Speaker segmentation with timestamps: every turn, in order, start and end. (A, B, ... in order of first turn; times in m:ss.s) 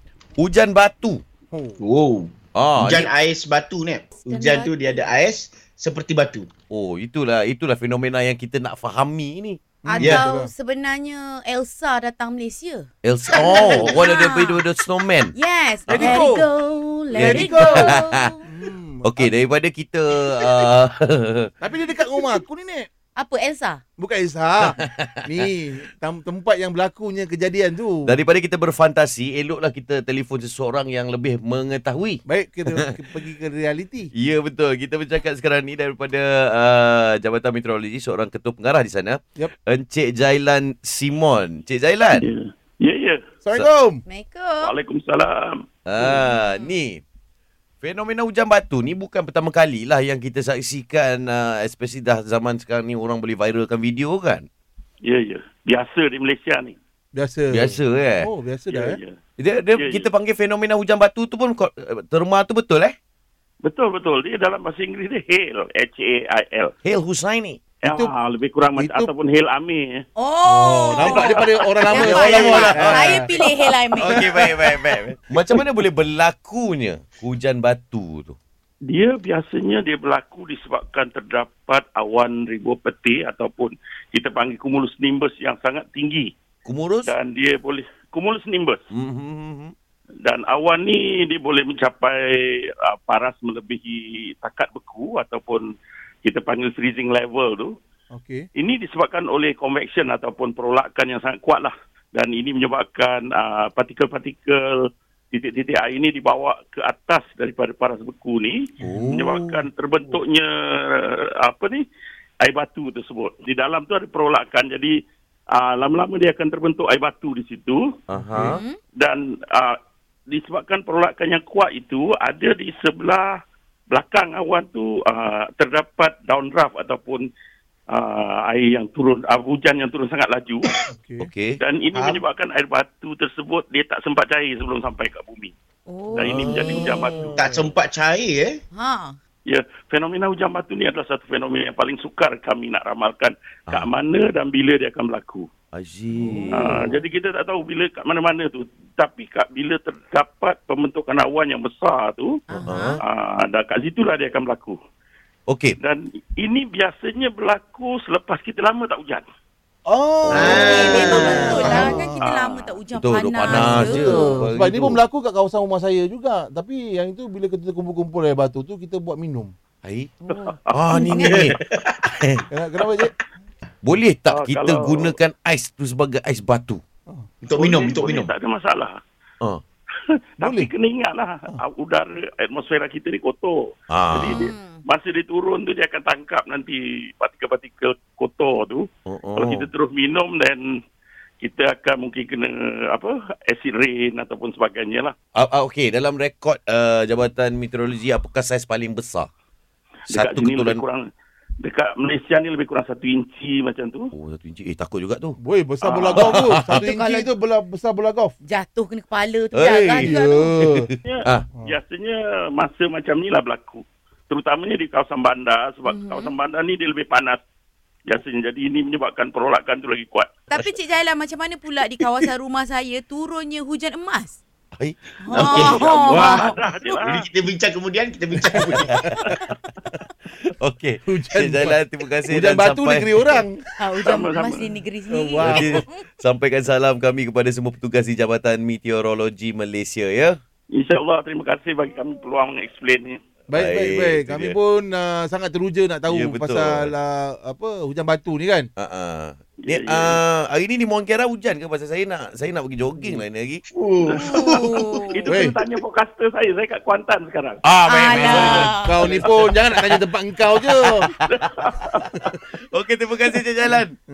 0:00.4-0:01.2 A
0:01.5-0:01.8 B
0:01.8-0:06.5 C
0:02.5-0:03.1 A
0:04.1-0:05.1 D
0:06.7-0:09.6 A
0:09.8-0:10.5 B
0:10.0-0:12.9 D
0:10.0-0:10.3 C
0:13.0-0:15.3 A
0:13.4-0:13.7 C
0:13.7-0:14.6 D
0:15.3-0:18.4 D
0:15.9-0:16.2 A
0:15.9-0:16.5 B
0:17.1-0:19.4 B
0:17.1-0:18.3 A
0:19.0-0:21.5 A
0:21.6-0:22.9 B
0:23.2-0:23.8 D
0:24.0-0:28.2 B
0:24.6-0:25.2 A
0:28.0-0:32.2 A
0:32.2-0:34.1 B
0:34.1-0:42.3 A
0:42.2-0:43.2 E
0:43.4-0:44.0 B
0:44.0-0:44.7 D
0:44.6-0:46.1 E
0:45.8-0:47.0 A
0:46.2-0:46.8 D
0:47.8-0:54.5 A
0:55.0-0:56.8 E
0:57.1-0:59.0 B
0:57.5-0:58.3 A
0:58.7-0:59.2 E
0:59.4-1:02.9 A
0:59.8-1:00.0 E
1:03.6-1:06.7 E
1:06.8-1:07.6 A
1:07.8-1:10.0 E
1:07.8-1:08.1 B
1:08.7-1:09.1 B
1:10.2-1:14.3 D
1:10.5-1:13.4 B
1:11.9-1:18.4 A
1:14.0-1:14.5 B
1:18.9-1:26.3 E
1:26.6-1:27.1 A
1:27.0-1:28.8 E
1:28.9-1:29.7 A
1:30.2-1:37.7 E
1:38.1-1:38.5 B
1:38.5-1:51.8 E
1:48.8-1:49.3 B
1:48.8-1:49.6 A
1:52.4-1:54.9 E
1:55.5-1:57.9 E
1:58.1-1:58.6 A
1:58.1-1:58.6 B
1:58.4-1:58.8 D
1:59.0-1:59.8 E
2:00.3-2:03.4 E
2:03.9-2:07.2 E
2:07.9-2:10.8 E
2:10.9-2:11.3 B
2:11.2-2:11.6 A
2:11.6-2:15.5 E
2:11.9-2:12.2 C
2:15.9-2:17.3 D
2:16.1-2:17.3 E
2:16.2-2:17.7 B
2:17.3-2:18.5 C
2:18.7-2:19.2 D
2:19.5-2:25.5 E
2:25.7-2:26.7 A
2:26.2-2:26.9 B
2:26.5-2:32.4 E
2:32.5-2:33.0 D
2:32.7-2:33.0 A
2:33.0-2:34.8 E
2:35.5-2:35.7 A
2:35.8-2:39.2 E
2:39.9-2:42.2 B
2:40.2-2:41.9 A
2:40.3-2:41.9 C
2:40.5-2:44.5 D
2:41.2-2:42.8 E
2:42.9-2:45.0 A
2:43.4-2:49.5 B
2:49.8-2:51.6 A
2:50.3-2:50.8 E
2:50.9-2:51.4 D
2:51.2-2:52.0 C
2:52.2-2:52.4 A
2:52.5-2:53.1 B
2:53.8-2:56.8 A
2:54.3-2:55.1 E
2:57.4-2:58.3 C
2:57.5-2:59.0 E
3:00.4-3:10.8 E
3:00.4-3:00.7 B
3:03.9-3:04.4 A
3:04.2-3:04.8 D
3:09.1-3:09.7 A
3:11.4-3:15.2 E
3:15.3-3:19.3 A
3:20.1-3:21.0 E
3:20.1-3:20.8 A
3:21.6-3:24.1 E
3:24.1-3:25.4 A
3:25.4-3:28.3 B
3:25.8-3:26.4 E
3:26.1-3:26.8 A
3:26.5-3:27.3 D
3:28.4-3:30.5 D
3:29.5-3:31.4 A
3:29.6-3:30.9 B
3:31.0-3:37.4 E
3:35.8-3:36.4 D
3:38.1-3:40.4 E
3:40.5-3:44.4 D
3:44.8-3:46.5 A
3:45.2-3:46.8 D
3:45.3-3:45.8 C
3:45.4-3:47.2 E
3:47.0-3:49.0 C
3:48.5-3:49.4 B
3:48.6-3:49.1 A
3:50.6-3:53.4 A
3:51.0-3:53.6 B
3:53.8-3:56.0 D
3:54.0-3:54.8 E
3:55.1-3:55.8 B
3:55.4-4:00.4 A
4:00.8-4:03.2 E
4:03.5-4:08.7 B
4:03.5-4:04.6 A
4:06.1-4:06.9 A
4:08.8-4:13.6 A
4:09.6-4:10.2 E
4:13.0-4:13.2 B
4:13.7-4:14.8 C
4:14.2-4:14.8 A
4:14.3-4:15.4 D
4:15.1-4:19.2 E
4:15.3-4:15.6 B
4:17.6-4:20.0 A
4:17.8-4:19.0 D
4:18.2-4:21.1 B
4:20.6-4:21.3 A
4:21.2-4:22.2 E
4:22.2-4:23.9 A